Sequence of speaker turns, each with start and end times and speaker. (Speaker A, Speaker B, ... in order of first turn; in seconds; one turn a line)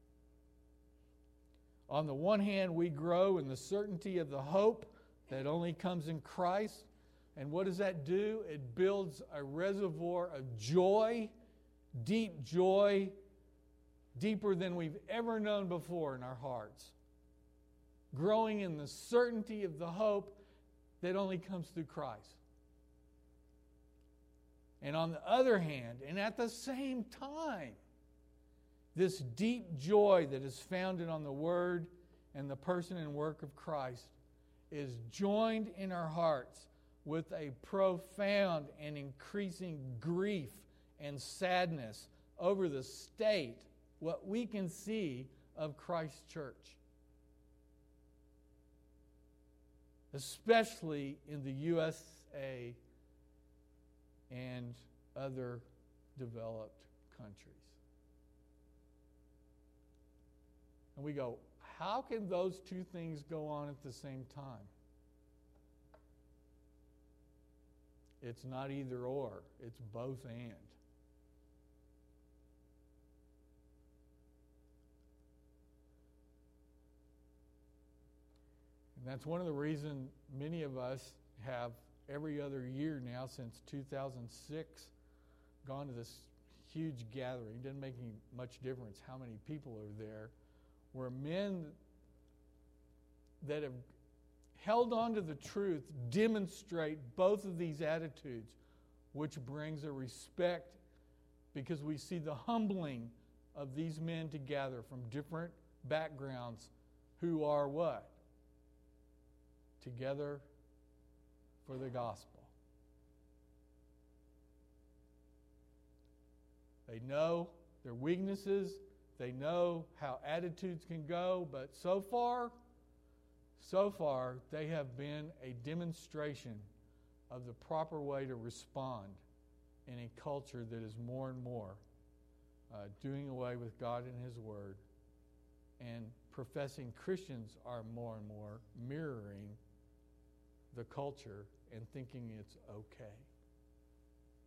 Speaker A: 1.9-11.3
Speaker A: 12.0-13.2
Speaker A: 14.2-16.9
Speaker A: 18.1-20.4
Speaker A: 21.0-22.4
Speaker A: 24.8-27.8
Speaker A: 28.9-34.2
Speaker A: 34.7-46.8
Speaker A: 50.1-52.8
Speaker A: 54.3-57.8
Speaker A: 61.0-64.7
Speaker A: 68.2-70.8
Speaker A: 79.0-84.9
Speaker A: 85.6-90.3
Speaker A: 90.9-91.8
Speaker A: 93.4-93.8
Speaker A: 94.5-98.6
Speaker A: 99.1-100.8
Speaker A: 101.5-108.2
Speaker A: 109.8-110.5
Speaker A: 111.6-112.5
Speaker A: 116.9-122.5
Speaker A: 123.6-126.7
Speaker A: 127.3-129.2
Speaker A: 129.9-131.8
Speaker A: 132.7-134.8
Speaker A: 135.8-139.6
Speaker A: 140.7-143.3